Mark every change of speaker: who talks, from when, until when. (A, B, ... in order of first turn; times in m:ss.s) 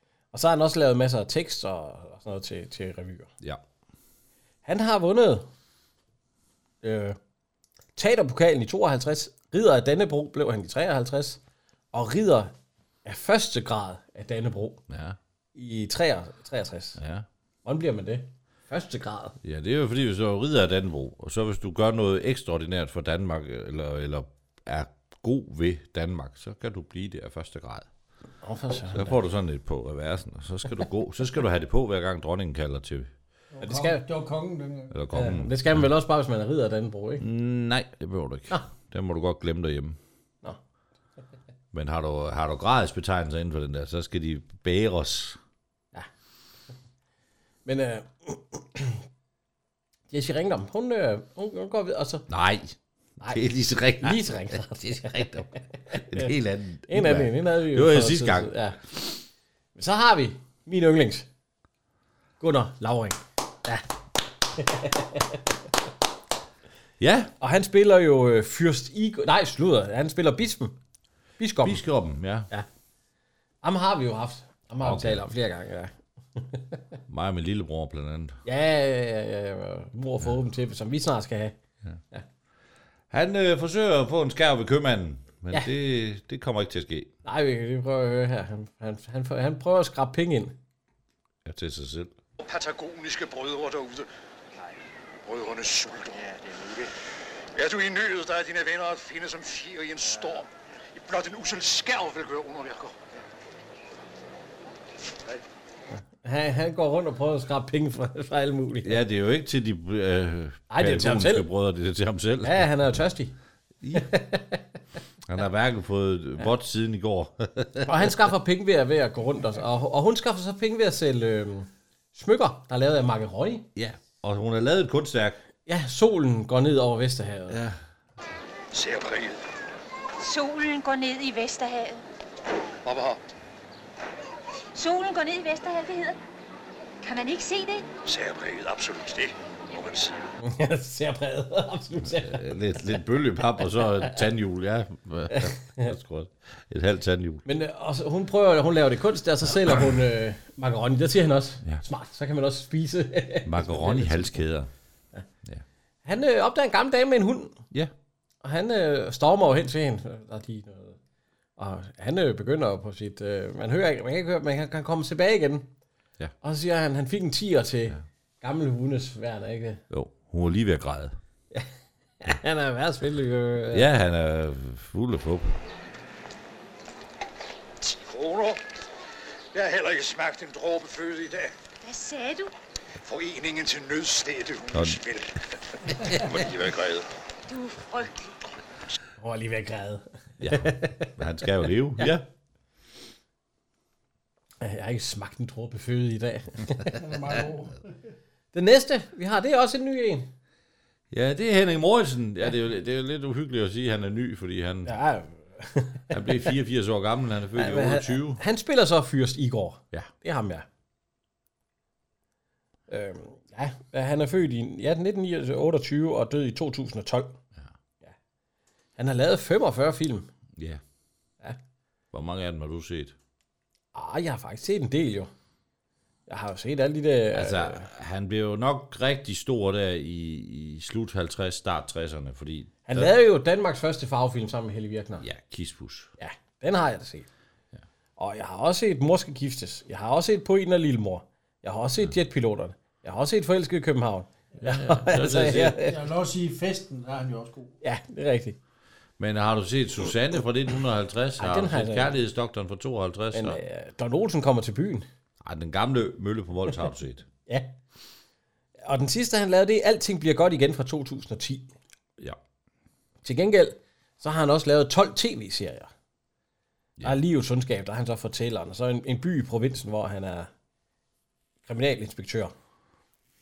0:00.3-0:03.3 A
0:04.6-0:05.4 A
0:06.8-0:07.2 A
0:08.0-0:11.4 A
0:11.9-0:12.5 A
0:13.0-0:14.8 A
0:14.9-0:15.2 B
0:15.5-0:17.0 A
0:17.0-0:17.3 B
0:17.6-0:19.4 A
0:19.4-0:27.9 B
0:28.4-0:29.2 A
0:28.9-0:33.1 B
0:33.5-0:34.9 C
0:33.6-0:34.0 A
0:34.9-0:35.9 B
0:35.1-0:37.2 A
0:37.2-0:40.0 B
0:41.7-0:45.4 B
0:47.6-0:49.0 A
0:50.1-0:52.2 A
0:52.3-0:58.7 B
0:54.0-0:56.3 A
0:56.9-0:59.2 A
0:59.7-1:01.3 A
1:02.4-1:03.9 A
1:04.5-1:05.4 A
1:07.0-1:07.3 B
1:07.4-1:10.8 A
1:11.4-1:11.8 A
1:11.6-1:12.5 B
1:13.6-1:16.8 A
1:14.8-1:15.2 B
1:17.1-1:18.4 B
1:18.4-1:21.6 A
1:23.1-1:27.1 B
1:27.2-1:30.6 A
1:31.4-1:32.1 B
1:32.4-1:34.1 D
1:35.2-1:36.9 D
1:37.5-1:43.0 D
1:46.1-1:49.0 A
1:48.8-1:52.9 B
1:50.7-1:51.5 A
1:52.4-1:53.4 A
1:53.8-1:54.1 B
1:53.9-1:54.6 A
1:55.3-1:58.3 B
1:57.8-2:03.7 A
2:03.8-2:05.4 B
2:05.6-2:07.6 A
2:07.5-2:07.8 B
2:08.7-2:09.4 D
2:10.2-2:12.0 E
2:12.8-2:13.2 D
2:14.7-2:16.2 E
2:17.0-2:17.8 E
2:18.0-2:20.1 D
2:20.4-2:23.0 A
2:22.0-2:27.4 B
2:25.3-2:25.9 A
2:27.4-2:34.4 A
2:33.4-2:34.7 B
2:36.0-2:37.6 A
2:38.4-2:41.0 A
2:41.6-2:45.7 A
2:46.4-2:49.8 A
2:49.9-2:51.2 B
2:51.5-2:53.9 A
2:53.7-2:55.6 B
2:57.8-2:58.6 D
2:59.5-3:01.5 D
3:01.8-3:02.5 E
3:03.0-3:07.0 D
3:04.7-3:05.0 B
3:07.5-3:08.3 E
3:09.2-3:11.1 A
3:10.4-3:12.2 B
3:14.6-3:17.0 A
3:16.9-3:17.9 C
3:18.5-3:20.3 A
3:21.1-3:24.9 B
3:24.8-3:26.5 A
3:26.1-3:28.4 B
3:27.6-3:30.6 A
3:32.9-3:37.4 A
3:39.0-3:40.3 A
3:40.6-3:40.8 B
3:42.1-3:43.2 B
3:43.9-3:45.3 A
3:46.3-3:47.9 A
3:47.3-3:53.1 B
3:52.9-3:55.2 A
3:55.2-3:56.1 B
3:56.2-3:57.3 A
3:58.2-4:06.0 A
4:04.6-4:05.8 B
4:05.4-4:07.7 C
4:07.8-4:08.6 A
4:09.2-4:13.6 B
4:11.4-4:12.2 A
4:13.3-4:15.0 A
4:15.4-4:17.2 B
4:17.5-4:17.7 A
4:18.8-4:21.7 A
4:23.2-4:25.9 A
4:27.0-4:30.5 A
4:31.6-4:32.5 A